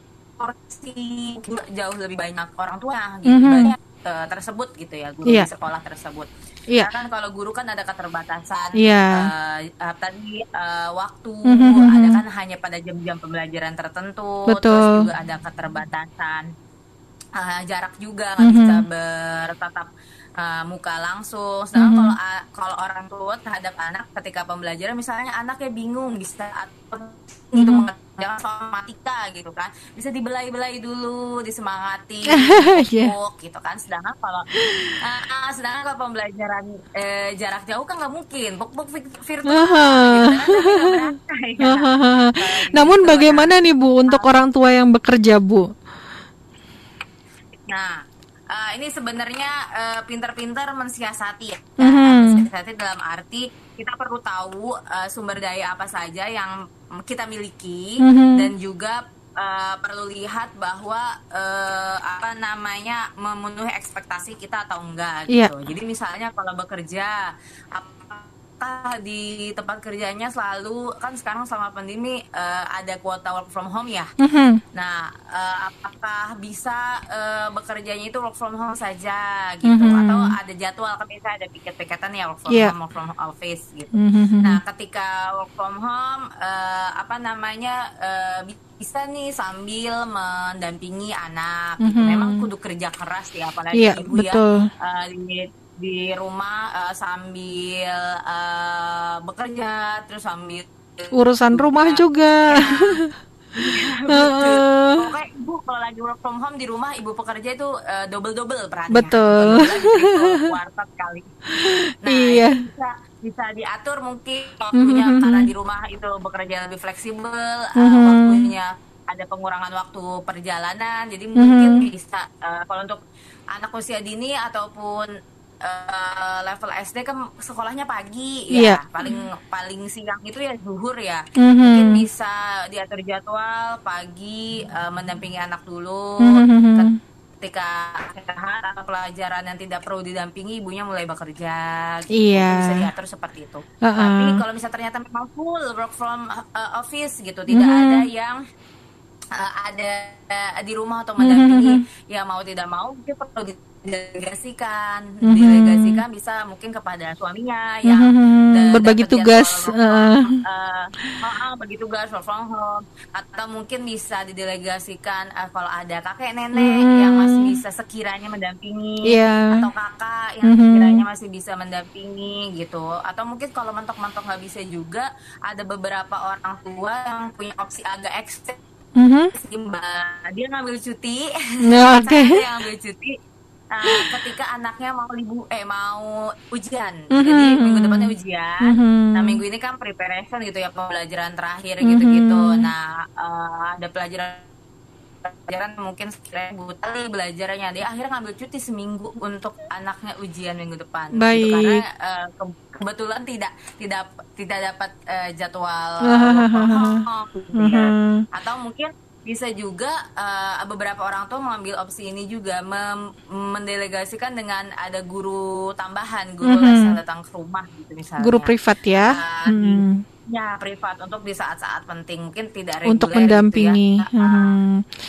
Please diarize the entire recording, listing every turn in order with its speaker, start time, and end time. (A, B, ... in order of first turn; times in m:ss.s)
0:00.4-0:16.5 A
0:03.3-0:03.7 B
0:08.8-0:09.3 B
0:11.5-0:12.2 B
0:14.5-0:15.1 B
0:17.4-0:34.5 A
0:18.4-0:18.8 B
0:21.8-0:22.2 B
0:27.6-0:27.9 B
0:32.3-0:33.1 B
0:34.6-0:34.9 B
0:35.0-0:43.5 A
0:39.5-0:41.0 B
0:41.6-0:45.7 B
0:47.7-0:48.0 A
0:48.5-1:14.1 A
0:51.8-0:52.4 B
0:58.0-0:58.5 B
1:14.2-1:14.6 B
1:14.7-1:43.0 A
1:19.7-1:20.3 B
1:24.0-1:24.6 B
1:31.8-1:32.5 B
1:33.7-1:34.7 B
1:41.1-1:43.1 B
1:43.6-1:51.4 A
1:44.1-1:45.1 B
1:48.9-1:50.5 B
1:51.5-1:52.6 B
1:52.0-2:03.0 A
1:54.8-1:55.5 B
1:57.8-1:58.5 B
2:01.4-2:01.9 B
2:03.5-2:05.1 A
2:05.6-2:28.4 A
2:08.5-2:09.2 B
2:11.4-2:12.0 B
2:16.2-2:17.0 B
2:22.1-2:22.9 B
2:23.8-2:24.4 B
2:27.5-2:28.0 B
2:29.3-2:58.6 A
2:31.2-2:31.8 B
2:35.2-2:36.0 B
2:37.8-2:40.4 B
2:46.6-2:47.6 B
2:49.0-2:49.7 B
2:50.5-2:51.0 B
2:59.0-2:59.3 B
2:59.3-3:03.2 A
3:01.7-3:02.4 B
3:03.7-3:14.5 A
3:07.2-3:08.1 B
3:08.6-3:09.4 B
3:11.8-3:12.7 B
3:15.2-3:44.6 A
3:21.2-3:21.8 B
3:26.1-3:27.0 B
3:27.6-3:28.2 B
3:36.4-3:37.0 B
3:38.2-3:40.0 B
3:42.9-3:44.8 B